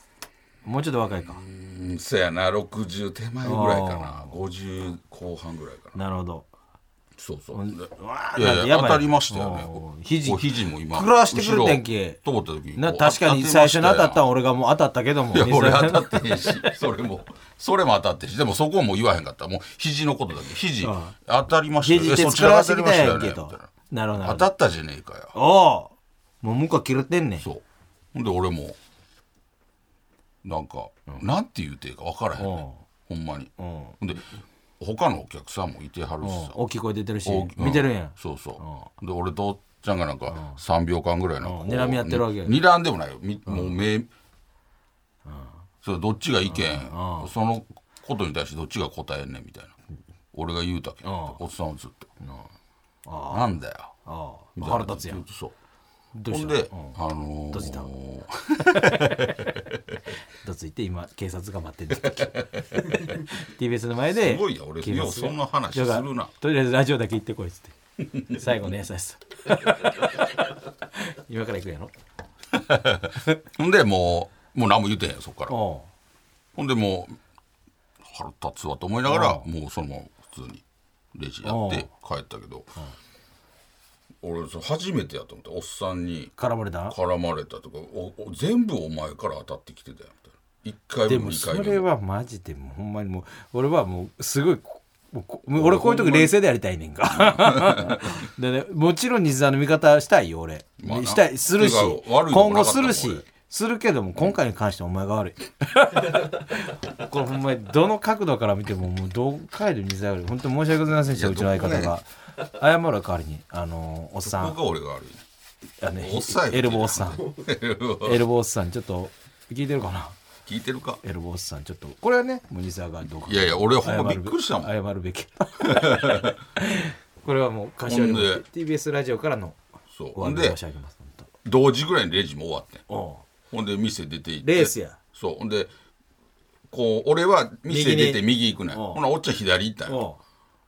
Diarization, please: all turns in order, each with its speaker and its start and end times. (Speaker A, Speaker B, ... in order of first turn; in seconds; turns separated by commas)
Speaker A: 0.6-1.4, Speaker B: 1.3-6.0, Speaker A: 3.4-4.3, Speaker A: 5.9-6.5, Speaker B: 7.2-14.2, Speaker A: 7.5-12.2, Speaker A: 12.8-16.7, Speaker B: 15.3-25.3, Speaker A: 20.8-21.1, Speaker A: 21.8-24.5, Speaker A: 25.3-27.4, Speaker B: 28.1-28.8, Speaker B: 30.4-34.3, Speaker A: 32.4-32.8, Speaker A: 33.6-34.0, Speaker B: 34.8-36.5, Speaker A: 36.2-38.9, Speaker B: 37.2-44.1, Speaker A: 40.3-40.6, Speaker A: 41.4-42.5, Speaker A: 43.5-43.8, Speaker A: 45.2-45.5, Speaker B: 45.8-49.7, Speaker A: 46.5-47.3, Speaker B: 50.3-52.1, Speaker A: 51.0-51.4, Speaker A: 52.2-52.5, Speaker A: 53.0-53.5, Speaker B: 53.3-53.9, Speaker A: 54.0-55.2, Speaker B: 54.5-55.5, Speaker A: 56.1-57.0, Speaker B: 56.3-59.8, Speaker A: 57.5-57.9, Speaker A: 58.6-59.5, Speaker A: 60.4-71.9, Speaker B: 62.0-63.2, Speaker B: 64.1-66.3, Speaker B: 68.1-68.4, Speaker B: 72.5-75.5, Speaker A: 75.5-75.9, Speaker B: 76.5-77.2, Speaker B: 78.0-80.6, Speaker A: 79.0-79.5, Speaker B: 81.1-82.8, Speaker A: 81.4-81.9, Speaker B: 84.2-86.3, Speaker A: 86.4-86.9, Speaker B: 86.9-91.9, Speaker A: 91.0-114.6, Speaker B: 95.5-96.3, Speaker B: 97.1-98.1, Speaker B: 100.8-103.2, Speaker B: 111.1-112.0, Speaker B: 114.2-115.2, Speaker A: 115.8-117.3, Speaker B: 116.0-118.2, Speaker A: 118.0-120.2, Speaker B: 120.5-121.0, Speaker A: 121.0-129.6, Speaker B: 123.2-124.7, Speaker B: 125.6-126.3, Speaker B: 127.8-128.4, Speaker B: 129.9-130.6, Speaker A: 130.1-131.3, Speaker B: 131.4-132.8, Speaker A: 132.9-133.2, Speaker B: 133.5-135.7, Speaker A: 134.4-135.0, Speaker B: 136.7-140.0, Speaker A: 137.7-139.0, Speaker A: 139.8-140.2